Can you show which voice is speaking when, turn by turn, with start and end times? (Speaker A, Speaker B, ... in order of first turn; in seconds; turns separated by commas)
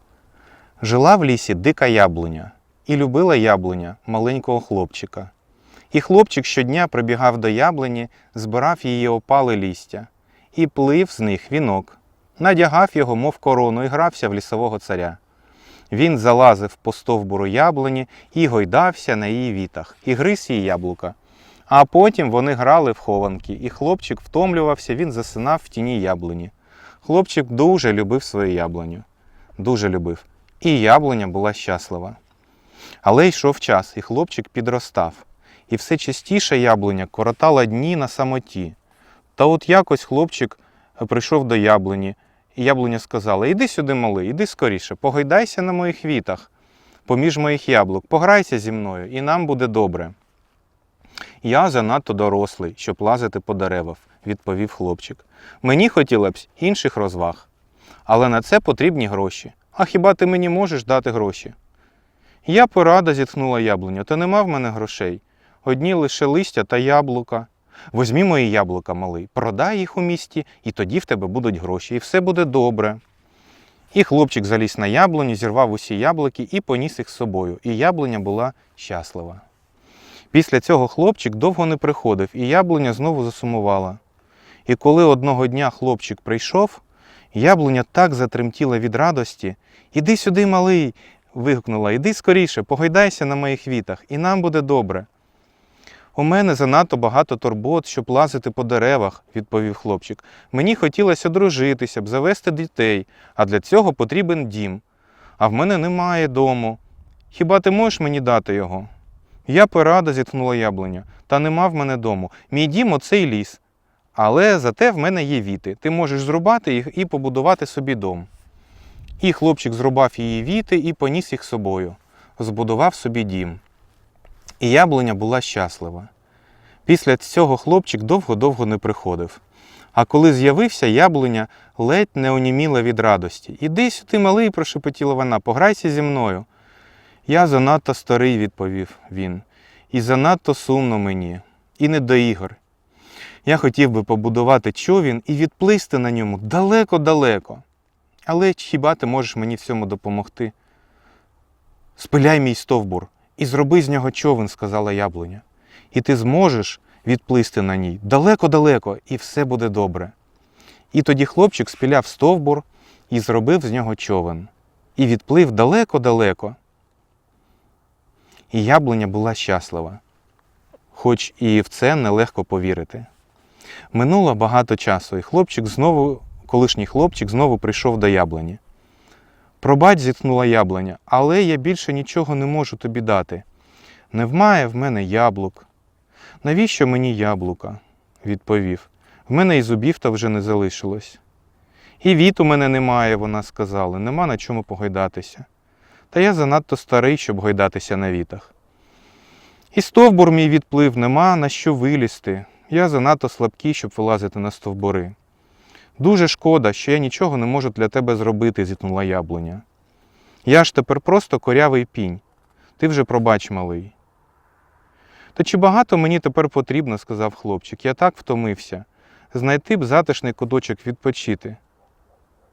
Speaker A: 0.8-5.3, Speaker A: 5.9-15.2, Speaker A: 15.9-21.1, Speaker A: 21.7-26.5, Speaker A: 27.0-29.0, Speaker A: 29.6-32.2, Speaker A: 33.0-38.8, Speaker A: 39.4-46.5, Speaker A: 47.1-50.1, Speaker A: 51.4-57.5, Speaker A: 58.0-61.5, Speaker A: 62.4-73.0, Speaker A: 73.9-79.4, Speaker A: 80.3-84.0, Speaker A: 84.7-86.8, Speaker A: 87.3-95.1, Speaker A: 96.1-104.8, Speaker A: 105.4-106.8, Speaker A: 107.3-108.9, Speaker A: 109.5-113.6, Speaker A: 114.1-118.3, Speaker A: 119.2-123.6, Speaker A: 124.6-126.1, Speaker A: 126.8-129.4, Speaker A: 129.9-136.5, Speaker A: 137.2-142.6, Speaker A: 143.4-147.6, Speaker A: 148.2-150.5, Speaker A: 151.9-160.1, Speaker A: 160.9-166.6, Speaker A: 168.5-170.0, Speaker A: 170.9-173.1, Speaker A: 173.9-178.6, Speaker A: 179.6-183.4, Speaker A: 184.1-185.7, Speaker A: 186.4-191.2, Speaker A: 192.0-195.5, Speaker A: 196.1-198.5, Speaker A: 199.7-205.1, Speaker A: 206.0-209.6, Speaker A: 210.4-212.2, Speaker A: 212.8-213.9, Speaker A: 215.3-221.6